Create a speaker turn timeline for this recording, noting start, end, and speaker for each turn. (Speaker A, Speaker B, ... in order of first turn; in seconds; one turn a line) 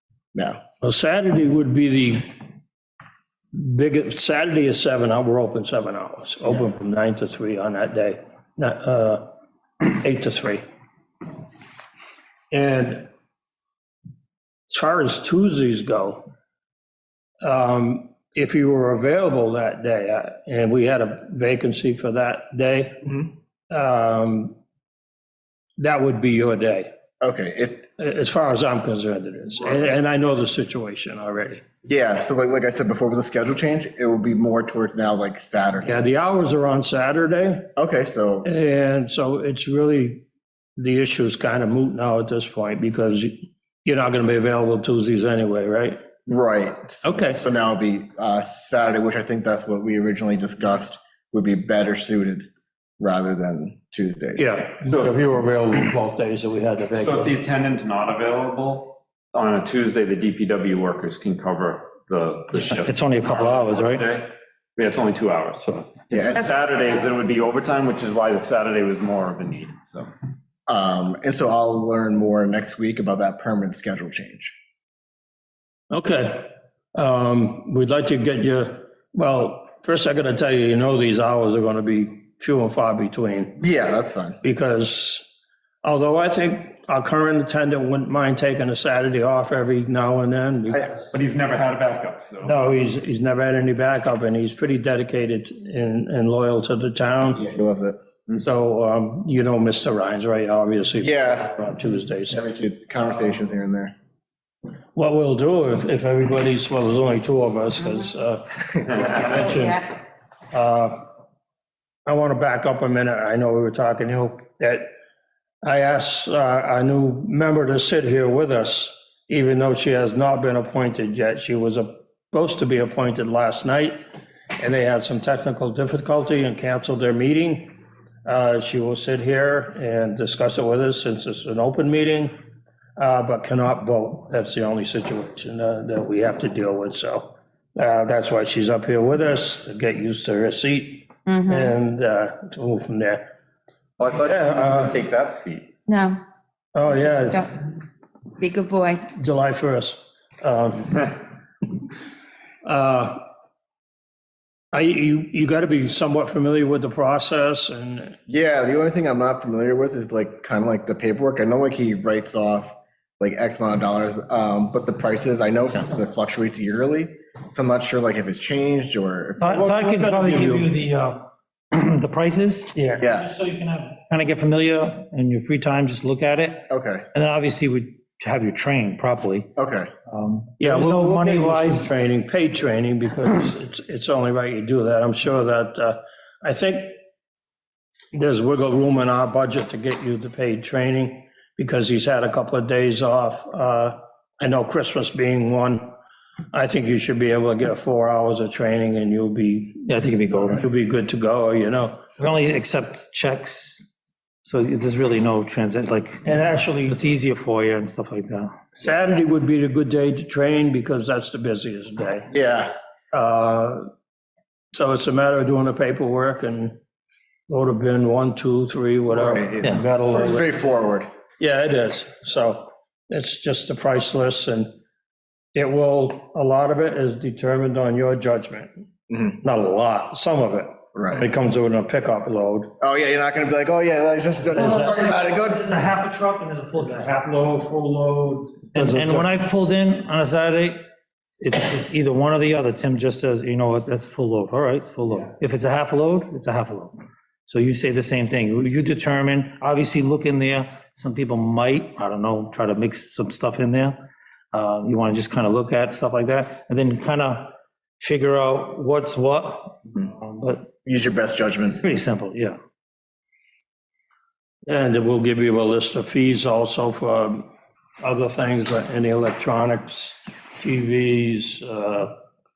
Speaker A: 0.3-0.6
Speaker B: 0.8-2.3
Speaker B: 3.5-9.3
Speaker B: 9.8-10.6
Speaker B: 12.5-13.0
Speaker B: 14.7-16.2
Speaker B: 17.4-23.0
Speaker B: 23.7-24.6
Speaker B: 25.8-26.9
Speaker A: 27.2-27.9
Speaker B: 28.0-31.6
Speaker A: 31.9-36.0
Speaker B: 35.8-37.7
Speaker A: 37.8-38.5
Speaker B: 38.4-40.2
Speaker B: 40.8-46.0
Speaker A: 46.3-52.5
Speaker B: 47.0-47.4
Speaker A: 53.0-54.5
Speaker B: 54.4-57.3
Speaker C: 56.9-70.1
Speaker D: 62.5-64.1
Speaker A: 66.1-66.5
Speaker A: 70.7-74.5
Speaker B: 75.9-83.6
Speaker A: 83.6-84.4
Speaker B: 84.4-90.9
Speaker A: 90.7-91.0
Speaker C: 91.1-92.5
Speaker B: 92.4-97.4
Speaker A: 97.3-98.0
Speaker B: 98.3-102.4
Speaker A: 101.0-101.5
Speaker A: 102.3-103.9
Speaker B: 105.0-109.8
Speaker E: 109.4-109.8
Speaker B: 110.5-111.0
Speaker B: 112.1-114.9
Speaker B: 115.6-124.0
Speaker B: 124.6-127.7
Speaker B: 128.2-132.3
Speaker B: 133.0-143.3
Speaker E: 141.3-141.8
Speaker C: 144.0-145.7
Speaker B: 144.1-145.0
Speaker E: 145.9-146.2
Speaker B: 146.8-147.5
Speaker E: 148.4-149.1
Speaker B: 149.1-151.1
Speaker B: 152.7-153.2
Speaker B: 154.7-158.2
Speaker A: 158.3-169.6
Speaker D: 169.4-179.5
Speaker B: 169.4-170.7
Speaker B: 172.7-173.0
Speaker A: 173.0-173.3
Speaker A: 176.7-177.1
Speaker A: 179.6-179.9
Speaker D: 180.1-181.9
Speaker B: 180.6-186.9
Speaker B: 188.1-196.0
Speaker B: 196.5-202.2
Speaker D: 199.8-200.6
Speaker D: 202.2-203.9
Speaker D: 204.5-208.5
Speaker B: 206.2-207.0
Speaker B: 208.8-212.3
Speaker A: 212.3-212.7
Speaker B: 213.1-213.9
Speaker B: 214.7-216.8
Speaker B: 217.5-220.5
Speaker A: 219.1-221.1
Speaker B: 221.4-224.7
Speaker B: 225.6-228.7
Speaker A: 229.1-229.4
Speaker B: 229.4-232.7
Speaker A: 230.9-231.2
Speaker A: 232.8-235.7
Speaker B: 234.6-235.1
Speaker D: 234.6-237.0
Speaker B: 236.8-239.3
Speaker D: 238.8-240.8
Speaker D: 241.4-254.0
Speaker D: 254.5-260.7
Speaker A: 260.8-261.8
Speaker D: 261.8-262.6
Speaker B: 264.7-267.5
Speaker B: 268.0-272.1